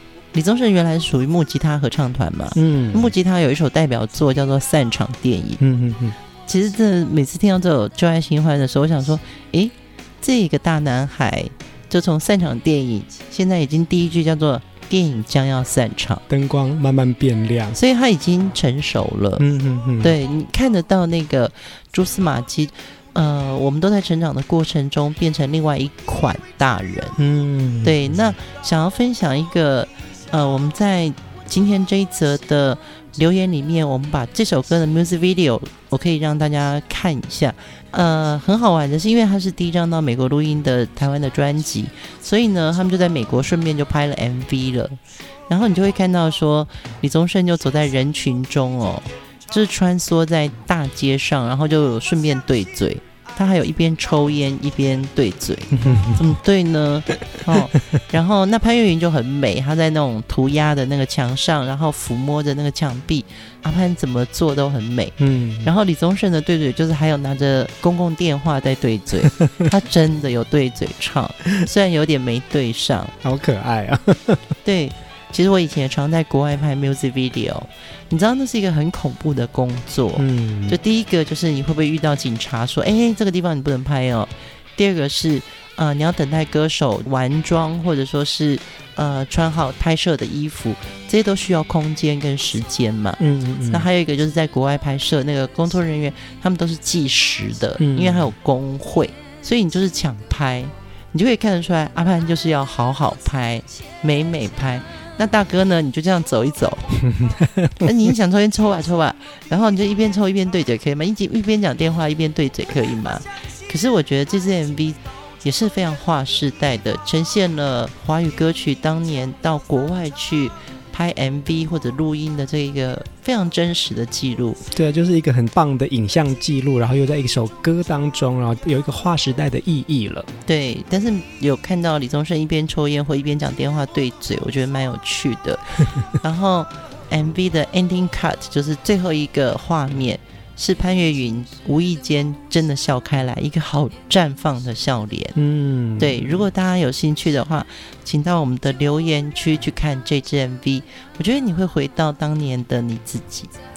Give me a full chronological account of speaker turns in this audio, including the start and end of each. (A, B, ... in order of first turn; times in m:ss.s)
0:00.3-0:05.6 A
0:02.6-0:03.1 B
0:05.6-0:06.2 B
0:06.5-0:16.2 A
0:16.3-0:17.8 B
0:17.7-0:19.4 A
0:19.4-0:20.2 B
0:20.0-0:27.2 A
0:27.2-0:28.3 B
0:27.8-1:13.1 A
0:55.8-0:56.2 B
1:05.2-1:05.7 B
1:13.2-1:14.4 B
1:14.6-1:46.9 A
1:20.2-1:20.8 B
1:33.2-1:33.9 B
1:37.8-1:38.3 B
1:47.0-1:47.8 B
1:47.8-2:04.6 A
2:04.7-2:10.3 B
2:10.4-2:25.4 A
2:25.3-2:26.4 B
2:26.0-2:33.5 A